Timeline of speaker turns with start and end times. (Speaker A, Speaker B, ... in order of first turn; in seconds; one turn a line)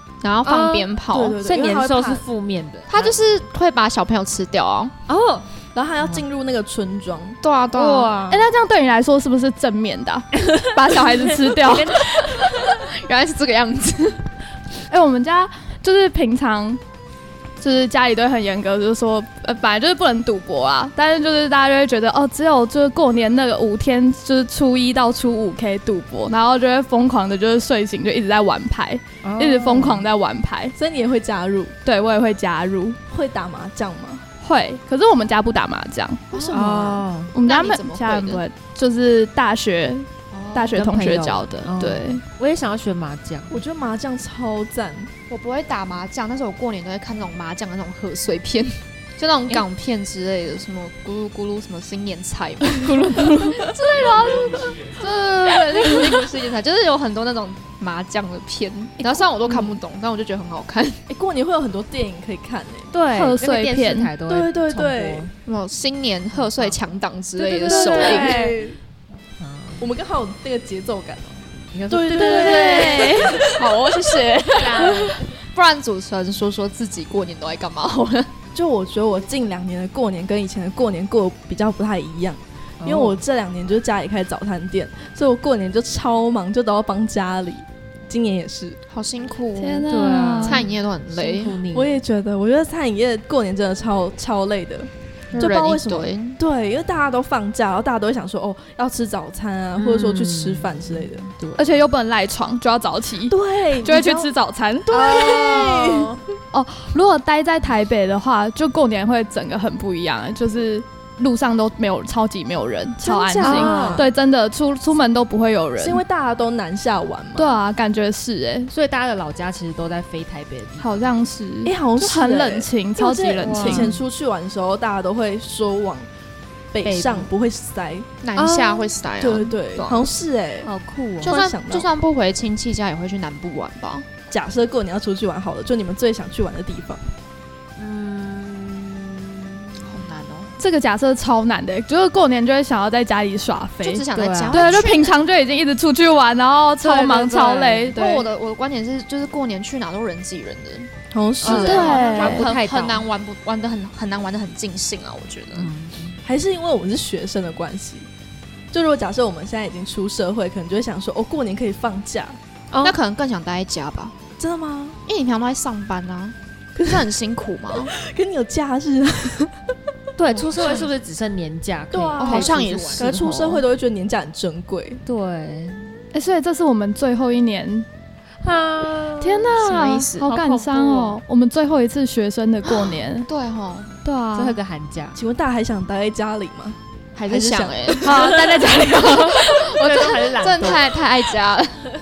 Speaker A: 0.2-1.4
Speaker B: 0.4-3.2
Speaker C: 1.1-2.2
Speaker A: 2.9-4.9
Speaker B: 5.1-5.5
Speaker C: 5.7-7.4
Speaker A: 7.4-8.1
Speaker B: 7.7-8.5
Speaker D: 8.3-12.2
Speaker B: 10.4-12.6
Speaker A: 12.2-14.2
Speaker D: 14.9-16.8
Speaker D: 17.6-30.7
Speaker B: 29.2-30.0
Speaker C: 30.8-31.7
Speaker D: 31.8-33.0
Speaker C: 33.1-34.2
Speaker D: 34.4-36.3
Speaker A: 36.3-38.4
Speaker C: 36.3-36.6
Speaker B: 36.5-37.3
Speaker D: 37.3-42.2
Speaker A: 40.3-40.8
Speaker B: 40.7-43.6
Speaker C: 43.5-45.1
Speaker A: 45.3-61.0
Speaker D: 52.8-53.6
Speaker C: 61.1-62.9
Speaker B: 62.9-65.3
Speaker D: 63.1-64.1
Speaker C: 64.3-65.3
Speaker A: 65.5-68.5
Speaker B: 66.3-66.8
Speaker B: 67.4-68.5
Speaker C: 67.5-68.8
Speaker B: 69.4-69.9
Speaker C: 69.8-73.6
Speaker B: 71.7-73.5
Speaker D: 72.1-73.3
Speaker A: 73.3-78.3
Speaker B: 74.5-75.4
Speaker C: 78.5-88.8
Speaker B: 82.8-83.2
Speaker A: 88.9-89.9
Speaker D: 89.5-90.7
Speaker B: 89.9-92.0
Speaker A: 90.4-91.6
Speaker C: 91.7-101.3
Speaker B: 95.3-95.5
Speaker A: 95.3-96.4
Speaker B: 99.8-101.8
Speaker D: 101.6-105.8
Speaker C: 103.3-104.3
Speaker C: 104.8-106.2
Speaker B: 105.1-105.9
Speaker D: 106.5-116.0
Speaker C: 113.0-114.1
Speaker B: 113.4-114.1
Speaker C: 115.8-117.5
Speaker D: 117.3-118.7
Speaker B: 118.7-121.1
Speaker D: 120.8-123.9
Speaker C: 121.6-126.1
Speaker B: 123.4-124.0
Speaker C: 126.7-128.1
Speaker B: 126.8-127.3
Speaker A: 128.2-130.1
Speaker B: 128.3-128.9
Speaker C: 129.2-130.7
Speaker B: 130.6-131.3
Speaker C: 131.2-131.9
Speaker A: 131.2-134.1
Speaker C: 134.3-137.0
Speaker B: 137.8-139.8
Speaker A: 139.8-140.5
Speaker D: 140.6-148.2
Speaker A: 143.8-145.1
Speaker B: 144.1-144.8
Speaker B: 146.8-148.0
Speaker A: 147.9-150.9
Speaker C: 151.1-151.9
Speaker B: 151.4-153.1
Speaker A: 151.4-155.7
Speaker D: 151.5-152.5
Speaker B: 155.5-156.2
Speaker C: 156.2-158.1
Speaker C: 158.7-162.4
Speaker B: 162.7-163.0
Speaker A: 162.8-164.1
Speaker C: 164.4-165.0
Speaker A: 165.1-167.9
Speaker C: 166.8-167.0
Speaker C: 167.9-169.5
Speaker B: 170.2-173.1
Speaker A: 170.6-170.8
Speaker C: 171.9-175.0
Speaker A: 172.2-173.6
Speaker B: 175.1-175.9
Speaker D: 176.1-177.9
Speaker B: 178.4-179.5
Speaker D: 179.2-183.3
Speaker A: 179.5-180.2
Speaker B: 180.2-181.2
Speaker A: 182.7-183.9
Speaker D: 184.0-184.6
Speaker B: 184.3-185.2
Speaker C: 185.1-189.3
Speaker A: 187.2-191.9
Speaker D: 188.0-189.3
Speaker B: 188.0-191.1